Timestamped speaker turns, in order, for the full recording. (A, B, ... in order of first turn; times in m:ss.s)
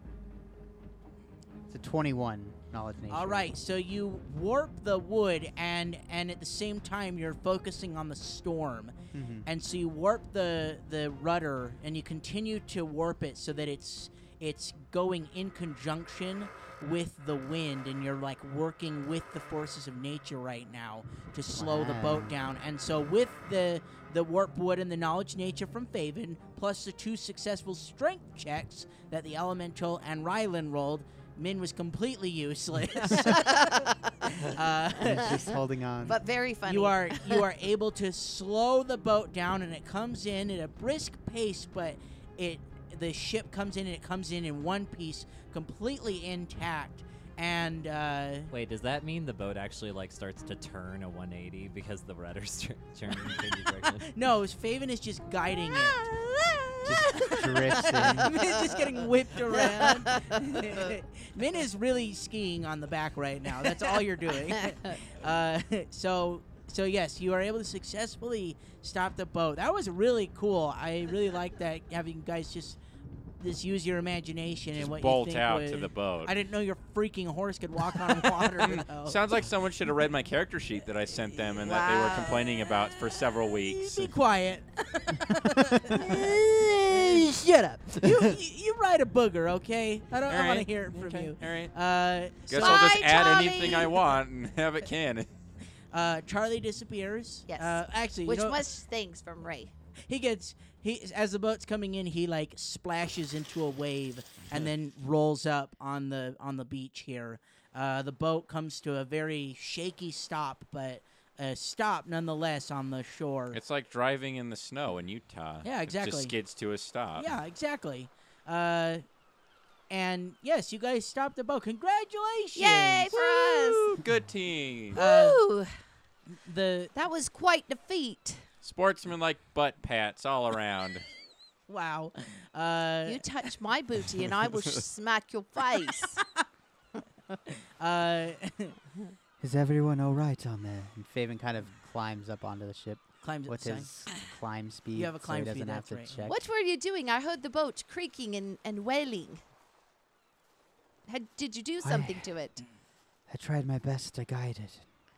0:01.7-0:03.5 A
0:03.1-0:08.9 B
0:09.1-0:09.5 A
0:09.4-0:35.4 B
0:21.5-0:22.3 A
0:33.2-0:37.4 C
0:35.0-0:36.2 A
0:36.6-0:48.5 B
0:48.5-0:54.1 D
0:54.0-1:12.8 B
0:56.8-0:58.4 A
0:57.0-0:58.6 C
0:59.5-1:00.8 C
1:04.5-1:04.9 C
1:13.4-1:19.2 B
1:14.7-1:16.3 E
1:18.6-1:24.1 E
1:21.5-1:22.5 C
1:23.6-1:33.0 B
1:25.9-1:26.2 C
1:26.2-1:28.2 D
1:30.2-1:31.7 E
1:32.5-1:35.3 E
1:32.5-1:34.0 C
1:35.9-1:38.6 B
1:37.5-1:39.7 C
1:40.1-1:53.6 B
1:53.5-1:57.3 E
1:55.6-1:56.3 B
1:57.1-1:59.0 B
1:59.9-2:04.0 B
2:02.5-2:03.9 C
2:03.9-2:05.0 E
2:04.9-2:05.4 B
2:04.9-2:05.7 C
2:06.3-2:06.9 B
2:06.9-2:08.4 C
2:08.6-2:11.1 E
2:11.7-2:13.5 B
2:13.0-2:16.2 C
2:16.0-2:16.4 B
2:17.5-2:18.8 B
2:19.4-2:26.4 A
2:23.2-2:24.0 B
2:24.9-2:26.3 B
2:26.2-2:29.4 C
2:31.1-2:32.6 C
2:31.8-2:32.3 A
2:33.3-2:34.9 A